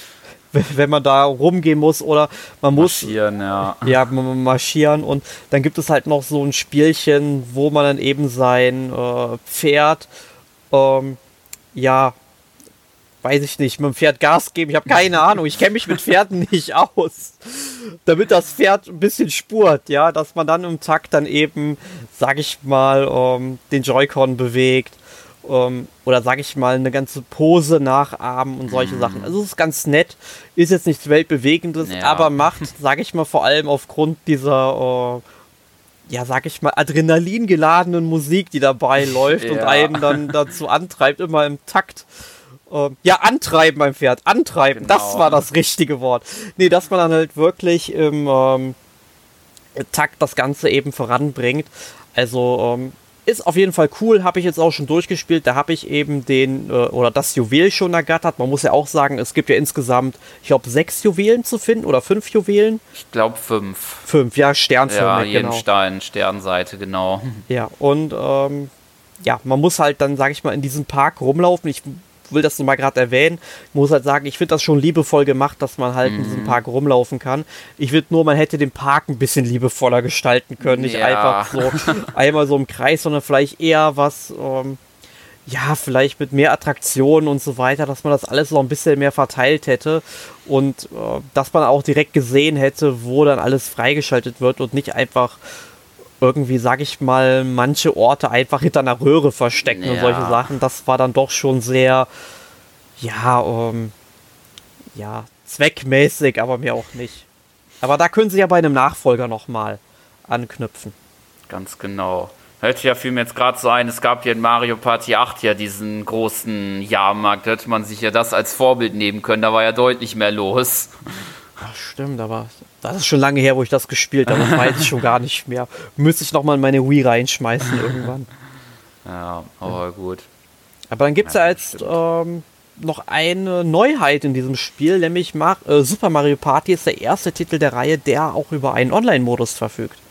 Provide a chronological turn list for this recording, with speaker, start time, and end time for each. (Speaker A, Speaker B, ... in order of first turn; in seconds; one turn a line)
Speaker A: 0.5-3.1
Speaker B: 2.8-3.9
Speaker A: 3.8-10.1
Speaker A: 10.7-11.2
Speaker A: 11.8-12.2
Speaker A: 13.2-35.2
Speaker B: 28.7-29.3
Speaker B: 31.8-32.7
Speaker A: 36.1-42.1
Speaker B: 39.3-40.4
Speaker A: 42.7-48.8
Speaker B: 44.7-45.4
Speaker A: 49.8-62.8
Speaker B: 63.0-64.1
Speaker A: 64.1-65.6
Speaker B: 64.9-67.4
Speaker A: 67.5-68.7
Speaker A: 69.2-84.8
Speaker B: 76.0-76.6
Speaker B: 80.6-82.1
Speaker A: 85.5-95.4
Speaker A: 96.2-102.1
Speaker B: 99.7-100.5
Speaker A: 103.0-103.9
Speaker A: 105.0-107.3
Speaker A: 107.8-111.0
Speaker B: 111.5-121.0
Speaker A: 121.6-128.3
Speaker B: 124.3-124.8
Speaker B: 129.1-130.3
Speaker A: 130.9-140.0
Speaker B: 131.2-132.0